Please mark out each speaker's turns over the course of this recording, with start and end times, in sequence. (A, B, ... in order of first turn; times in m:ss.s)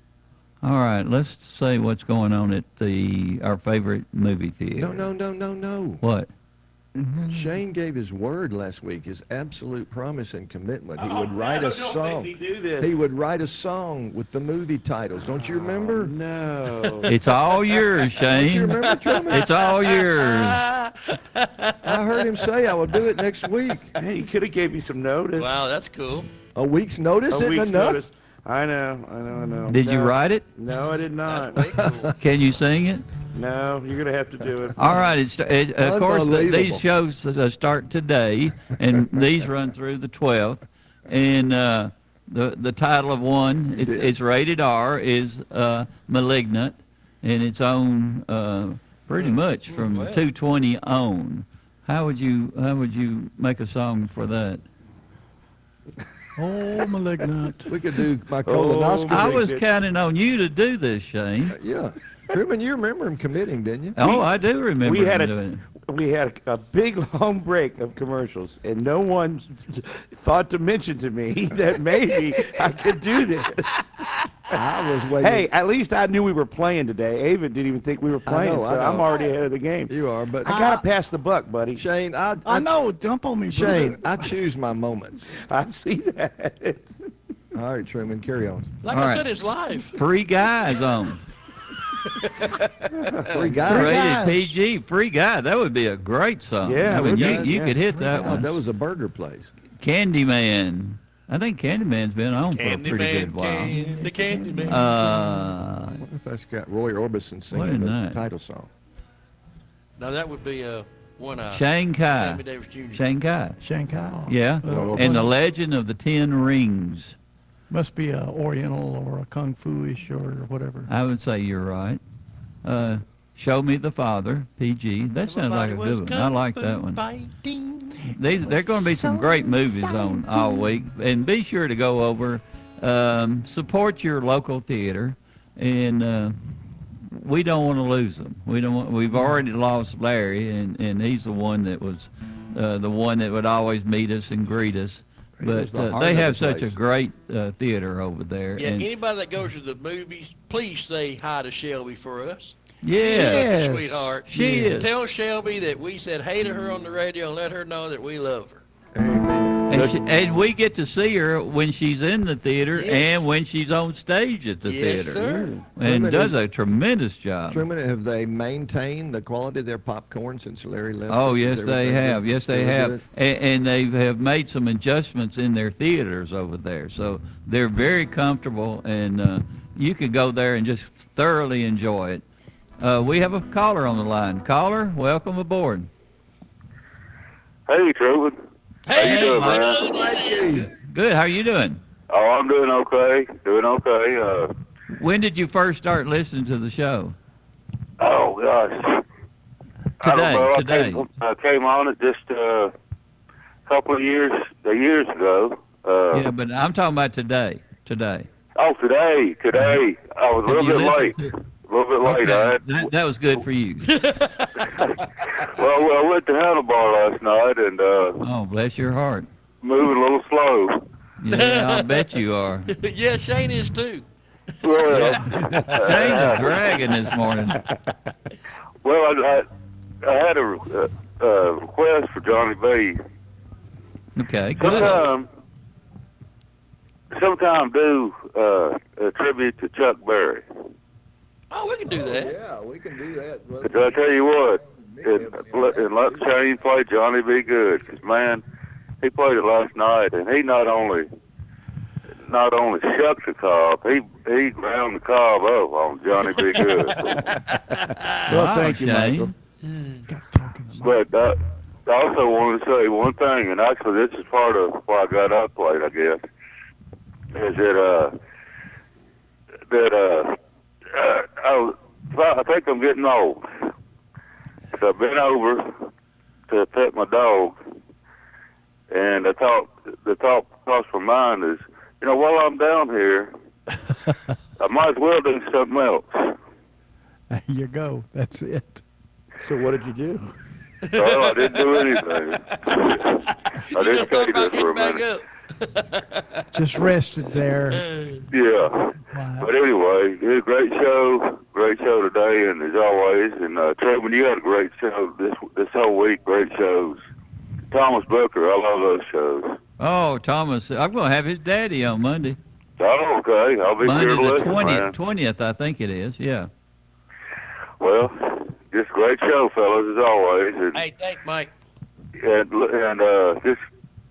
0:00.6-0:05.1 A
0:04.8-0:06.0 B
0:06.0-0:06.3 A
0:07.0-0:07.6 C
0:07.3-0:16.2 B
0:11.0-0:12.9 D
0:15.3-0:17.2 D
0:17.1-0:20.7 A
0:18.2-0:19.6 B
0:19.1-0:22.1 E
0:21.8-0:23.9 B
0:24.0-0:25.6 D
0:25.4-0:26.3 E
0:26.6-0:28.0 B
0:27.3-0:31.8 D
0:29.7-0:30.4 A
0:31.2-0:32.1 E
0:31.8-0:32.0 B
0:32.2-0:33.0 A
0:33.3-0:35.1 D
0:34.8-0:54.6 A
0:35.8-0:36.8 B
0:43.8-0:44.1 B
0:49.1-0:50.2 E
0:56.4-0:57.7 C
0:57.7-0:59.4 B
0:58.5-0:59.6 D
0:59.1-1:01.6 A
1:01.5-1:04.0 B
1:04.0-1:05.6 A
1:04.0-1:14.5 D
1:14.5-1:15.5 B
1:15.2-1:19.9 D
1:18.3-1:19.2 B
1:19.9-1:20.6 B
1:20.4-1:20.8 C
1:20.4-1:21.8 D
1:21.8-1:22.8 B
1:22.4-1:24.3 C
1:23.5-1:25.3 B
1:25.4-1:26.9 D
1:27.5-1:28.7 B
1:28.8-1:30.0 E
1:28.9-1:29.3 A
1:29.9-1:31.2 A
1:32.9-1:33.6 D
1:33.3-1:34.1 B
1:33.6-1:34.6 C
1:33.7-1:38.5 A
1:36.6-1:37.8 D
1:36.9-1:39.5 B
1:37.9-1:38.4 C
1:39.8-1:43.8 A
1:42.5-1:44.8 E
1:43.7-1:45.4 C
1:44.7-1:46.0 A
1:45.9-1:48.7 B
1:47.5-1:48.2 A
1:50.0-1:53.0 E
1:51.5-1:53.6 A
1:53.6-1:55.3 C
1:54.3-1:57.2 A
1:54.7-1:55.3 B
1:57.7-2:00.9 C
2:00.9-2:02.0 A
2:02.6-2:07.0 A
2:05.3-2:08.1 E
2:08.1-2:16.4 A
2:08.8-2:10.6 C
2:17.1-2:28.9 A
2:25.4-2:26.8 B
2:28.6-2:38.6 E
2:32.8-2:33.7 A
2:33.2-2:34.8 C
2:34.2-2:34.9 A
2:38.9-2:39.7 B
2:39.7-2:47.6 A
2:39.7-2:40.0 D
2:42.8-2:43.3 E
2:44.7-2:45.5 E
2:45.2-2:45.6 D
2:45.8-2:46.4 B
2:47.5-2:53.0 B
2:51.1-3:02.2 A
3:02.8-3:05.9 A
3:07.7-3:08.4 F
3:08.9-3:10.7 E
3:08.9-3:09.9 F
3:08.9-3:09.7 A
3:09.9-3:10.7 B
3:10.8-3:11.8 A
3:12.1-3:14.5 F
3:14.9-3:17.2 A
3:18.0-3:19.0 F
3:20.0-3:21.1 A
3:20.0-3:22.7 F
3:23.7-3:26.3 F
3:26.1-3:28.3 A
3:28.6-3:32.6 F
3:30.5-3:31.4 A
3:32.0-3:33.9 A
3:33.8-3:34.7 E
3:34.8-3:38.2 F
3:38.2-3:39.3 A
3:39.6-3:40.8 F
3:41.2-3:42.7 A
3:41.3-3:42.1 E
3:42.7-3:44.0 E
3:44.6-3:46.8 F
3:44.9-3:47.6 A
3:45.4-3:45.9 D
3:48.8-3:49.5 F
3:50.0-3:53.0 F
3:54.2-3:55.1 A
3:54.6-3:55.3 F
3:57.1-4:00.4 F
4:01.5-4:02.4 E
4:01.9-4:06.4 B
4:03.6-4:08.4 F
4:09.0-4:11.1 F
4:12.3-4:17.2 F
4:17.1-4:19.3 D
4:18.3-4:19.3 A
4:19.7-4:20.0 E
4:20.1-4:21.0 C
4:20.8-4:26.2 F
4:27.3-4:28.1 F
4:29.7-4:30.4 F
4:30.9-4:33.5 F
4:34.7-4:35.8 F
4:36.5-4:37.6 F
4:38.9-4:43.3 F
4:44.6-4:46.4 F
4:47.3-4:48.8 C
4:49.4-4:50.3 D
4:50.8-4:52.0 E
4:50.9-4:55.0 F
4:53.6-4:56.2 E
4:56.5-4:57.9 C
4:57.7-4:58.2 E
4:58.3-5:07.0 F
4:59.1-4:59.5 C
5:07.7-5:09.6 F
5:09.8-5:12.4 A
5:12.8-5:15.0 F
5:13.8-5:16.5 A
5:17.8-5:20.8 F
5:20.7-5:21.5 E
5:22.2-5:23.6 F